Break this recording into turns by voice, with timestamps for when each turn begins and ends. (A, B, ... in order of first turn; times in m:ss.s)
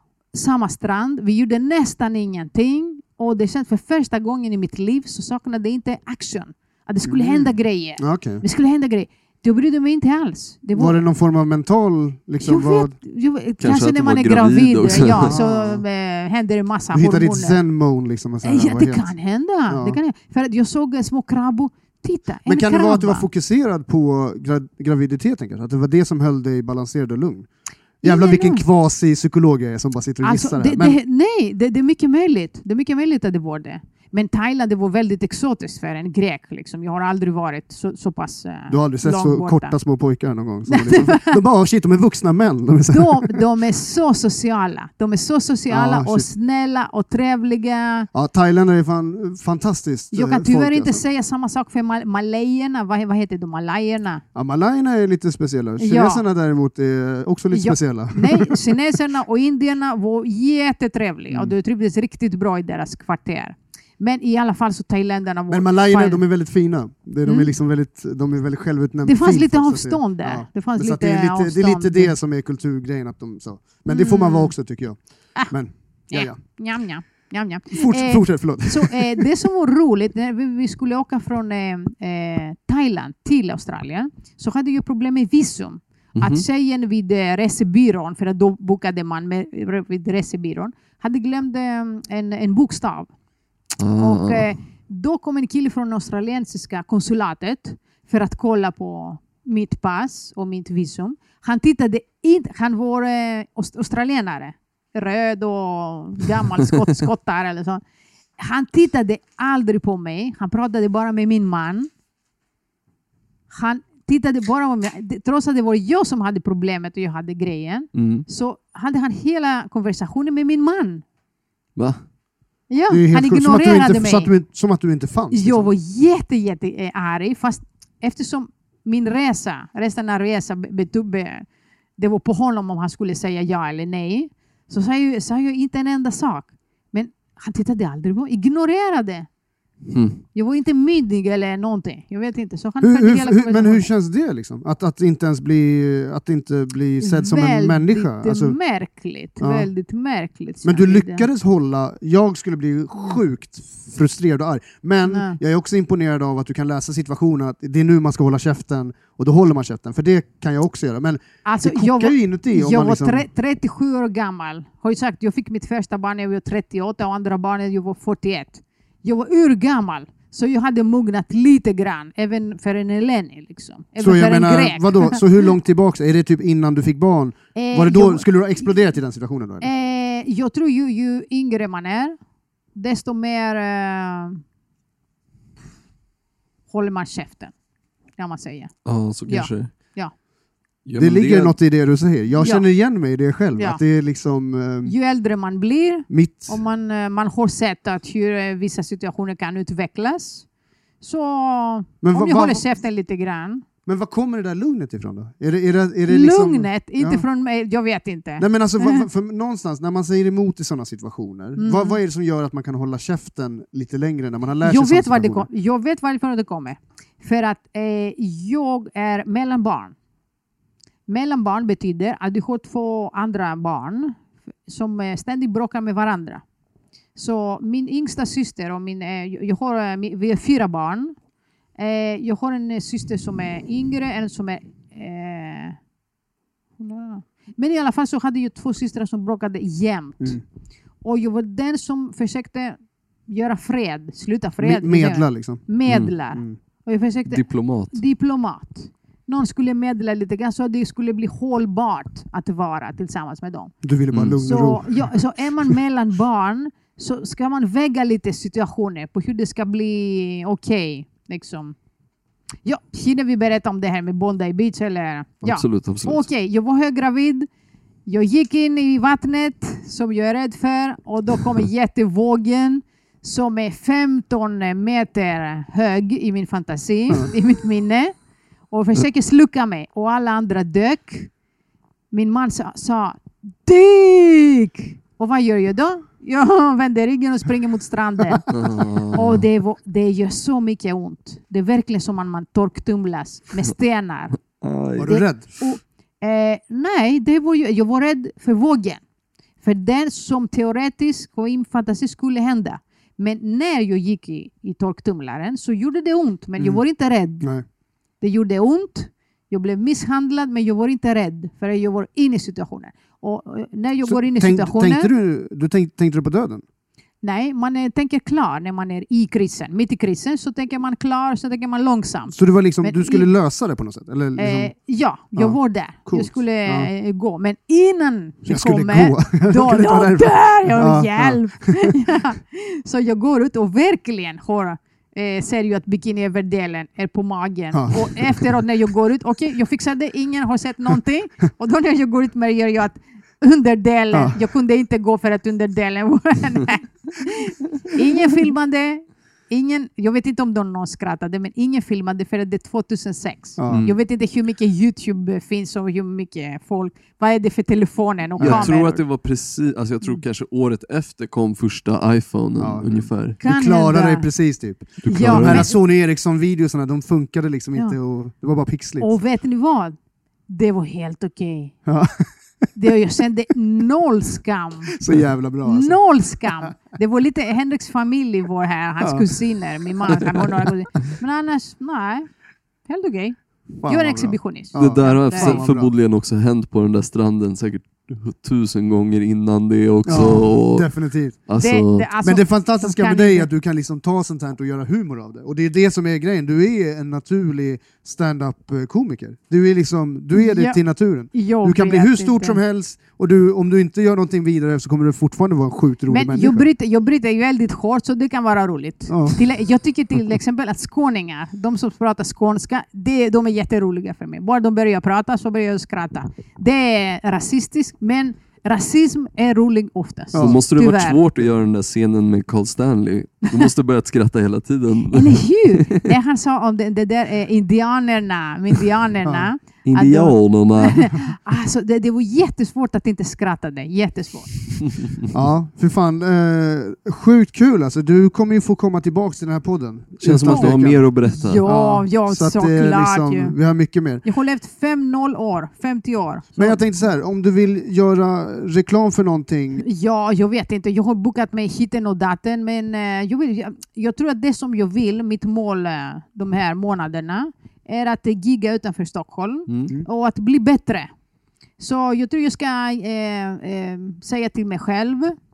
0:00.3-0:11.0 A
0:07.0-0:08.4 B
0:10.7-0:12.9 B
0:12.4-0:17.6 A
0:13.6-0:15.3 C
0:14.9-0:15.8 B
0:16.9-0:19.1 B
0:18.4-0:23.3 A
0:19.7-0:20.0 B
0:22.4-0:31.0 B
0:28.0-0:28.6 A
0:30.2-0:39.8 A
0:38.7-0:43.4 B
0:40.7-0:41.4 A
0:42.9-0:48.1 A
0:45.7-0:46.3 B
0:48.1-0:51.0 B
0:50.1-0:54.2 A
0:54.3-0:58.8 B
0:55.8-0:56.2 A
0:57.5-1:06.2 A
1:05.5-1:16.4 B
1:07.2-1:07.5 A
1:09.0-1:12.2 A
1:13.9-1:14.6 A
1:16.1-1:33.1 A
1:17.7-1:19.2 B
1:26.2-1:26.4 C
1:33.8-1:34.5 C
1:34.0-1:47.8 A
1:48.4-1:51.9 A
1:53.5-2:01.0 A
1:57.9-1:58.2 C
2:01.8-2:02.0 C
2:02.7-2:04.4 A
2:02.9-2:05.7 B
2:05.3-2:11.4 A
2:12.0-2:19.3 A
2:19.9-2:20.2 C
2:20.3-2:23.8 A
2:22.8-2:28.6 B
2:27.0-2:31.3 A
2:29.4-2:29.7 B
2:30.6-2:43.2 B
2:32.9-2:33.2 A
2:35.0-2:35.4 A
2:41.4-2:55.2 A
2:54.0-2:59.7 B
2:57.5-2:58.8 A
2:59.6-3:02.2 A
3:02.7-3:04.4 A
3:06.7-3:07.5 A
3:08.2-3:10.1 A
3:08.8-3:09.9 C
3:10.8-3:11.6 C
3:11.0-3:14.9 B
3:12.4-3:12.6 A
3:13.6-3:13.8 A
3:14.8-3:20.5 A
3:16.1-3:16.5 B
3:21.0-3:23.6 A
3:22.0-3:22.6 B
3:23.8-3:27.2 B
3:26.1-3:29.0 A
3:28.4-3:35.5 B
3:31.6-3:32.0 A
3:34.6-3:39.9 A
3:41.1-3:46.4 A
3:47.2-3:51.2 A
3:51.8-3:55.8 A
3:56.8-4:00.4 A
4:01.0-4:13.8 A
4:04.6-4:06.6 B
4:05.8-4:06.1 C
4:07.3-4:08.0 C
4:13.8-4:15.1 B
4:14.1-4:14.4 C
4:14.4-4:21.8 A
4:22.6-4:27.5 A
4:25.4-4:26.2 C
4:28.0-4:38.1 A
4:38.7-4:41.3 A
4:42.1-4:48.6 A
4:48.5-4:49.4 C
4:49.1-4:54.4 A
4:54.4-4:55.2 C
4:55.0-4:55.5 B
4:55.0-4:59.0 A
4:59.6-5:07.5 A
5:06.6-5:06.8 B
5:08.2-5:15.1 A
5:14.0-5:16.6 B
5:17.2-5:23.3 A
5:22.3-5:24.7 B
5:24.4-5:59.1 A
5:25.3-5:26.9 B
5:28.4-5:31.9 B
5:37.7-5:38.4 B
5:44.1-5:44.4 B
5:53.6-5:53.9 B
5:53.7-5:54.0 C
5:58.4-5:58.7 B
5:58.4-6:03.4 C
6:02.6-6:09.1 B
6:03.4-6:04.3 A
6:05.0-6:05.7 C
6:05.0-6:05.7 A
6:09.0-6:11.8 A
6:11.8-6:12.7 B
6:12.7-6:15.0 A
6:14.9-6:16.1 B
6:15.6-6:22.3 A
6:19.0-6:19.4 B
6:20.0-6:20.6 B
6:22.8-6:25.6 A
6:23.8-6:25.9 B
6:24.7-6:32.1 C
6:30.0-6:31.4 B
6:31.6-6:33.5 A
6:32.2-6:46.6 B
6:40.3-6:42.6 A
6:46.1-7:01.2 A
6:49.1-6:49.4 B
7:00.3-7:00.6 B
7:00.4-7:06.0 C
7:05.1-7:15.1 A
7:09.2-7:09.5 B
7:09.8-7:11.2 C
7:15.3-7:24.2 B
7:20.2-7:21.6 C
7:20.5-7:23.6 A
7:24.2-7:26.8 A
7:26.6-7:29.8 B
7:29.8-7:41.1 A
7:41.8-7:45.4 A